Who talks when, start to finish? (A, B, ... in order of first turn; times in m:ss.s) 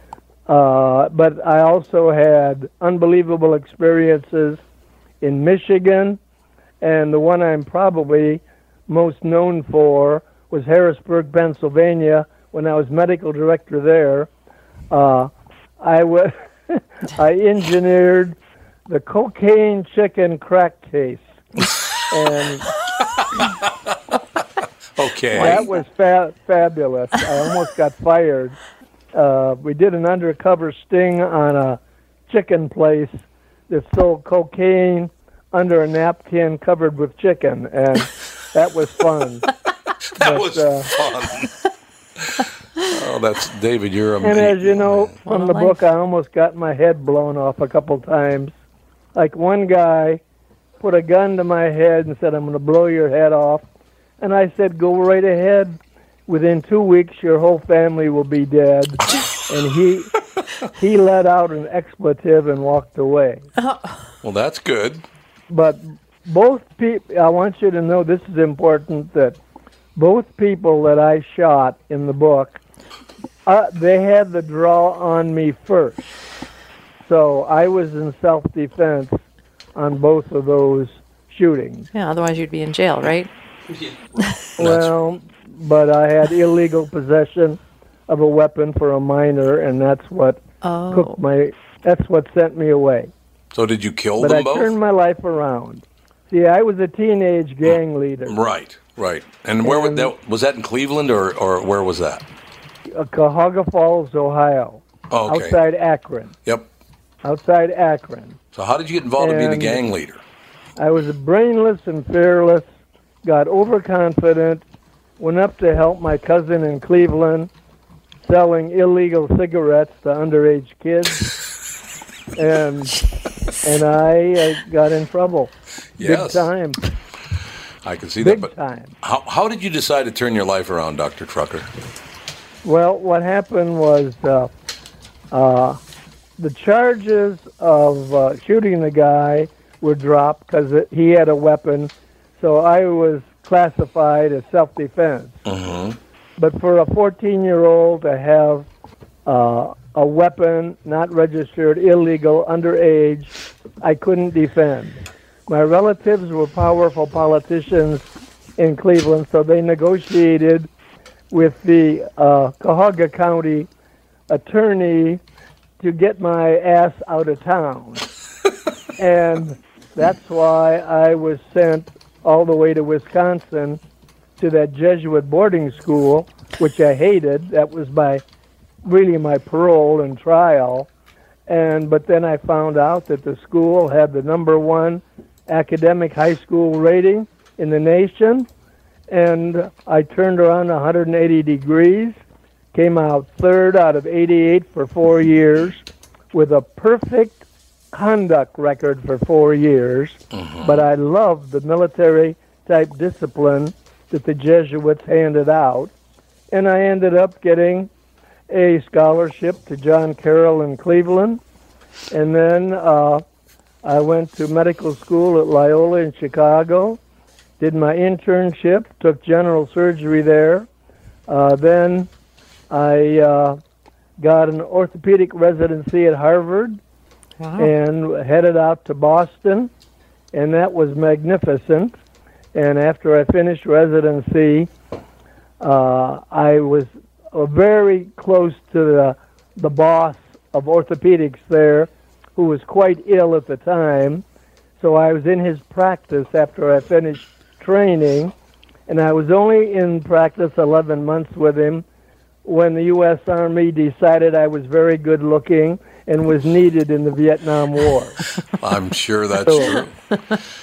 0:00.5-0:04.6 A
0:05.2-0:06.2 A
0:06.8-0:14.3 A
0:14.9-0:18.4 A
0:18.9-0:21.3 A
0:22.1-0:22.7 A
0:25.0-0:25.7 B
0:25.3-0:28.6 A
0:29.1-0:39.4 A
0:40.2-0:41.5 B
0:40.2-0:40.9 A
0:42.4-0:45.2 B
0:44.2-0:48.5 A
0:45.2-0:45.8 C
0:49.1-0:50.2 A
0:50.8-0:53.6 A
0:54.2-1:00.1 A
1:00.8-1:03.5 A
1:04.2-1:05.0 B
1:05.5-1:09.4 A
1:10.0-1:12.6 A
1:13.5-1:16.0 A
1:17.0-1:19.2 A
1:19.8-1:21.9 A
1:21.9-1:23.3 C
1:24.6-1:33.1 A
1:24.6-1:24.9 B
1:30.6-1:31.2 C
1:33.5-1:34.7 B
1:34.2-1:38.4 A
1:38.2-1:42.2 B
1:39.6-1:40.1 A
1:42.9-1:46.4 A
1:45.1-1:45.6 B
1:47.2-1:48.4 A
1:48.5-1:50.2 B
1:49.2-1:49.8 A
1:50.8-1:52.6 A
1:53.2-1:54.6 A
1:55.2-1:57.5 A
1:58.2-2:01.3 A
2:02.4-2:03.0 A
2:03.6-2:06.8 A
2:06.0-2:06.5 B
2:07.8-2:11.7 B
2:08.2-2:08.9 A
2:12.6-2:14.5 A
2:15.3-2:15.8 A
2:16.4-2:25.4 A
2:25.4-2:26.0 B
2:26.4-2:28.7 A
2:29.2-2:38.1 A
2:38.6-2:40.7 A
2:41.3-2:43.7 A
2:44.3-2:45.2 A
2:45.8-2:48.1 A
2:49.0-2:53.8 A
2:54.4-2:58.2 A
2:58.8-3:00.9 A
3:01.5-3:08.5 A
3:09.1-3:12.2 A
3:12.7-3:25.9 A
3:20.3-3:20.8 B
3:26.5-3:27.9 A
3:28.5-3:31.4 A
3:32.1-3:33.2 A
3:33.8-3:37.0 A
3:37.6-3:40.7 A
3:41.3-3:42.1 A
3:42.7-3:43.6 A
3:44.2-3:46.8 A
3:47.6-3:49.7 A
3:50.3-3:52.0 A
3:52.5-3:54.7 A
3:55.6-4:04.2 A
4:04.8-4:08.3 A
4:08.9-4:11.8 A
4:12.4-4:18.2 A
4:18.6-4:20.0 B
4:19.4-4:19.7 A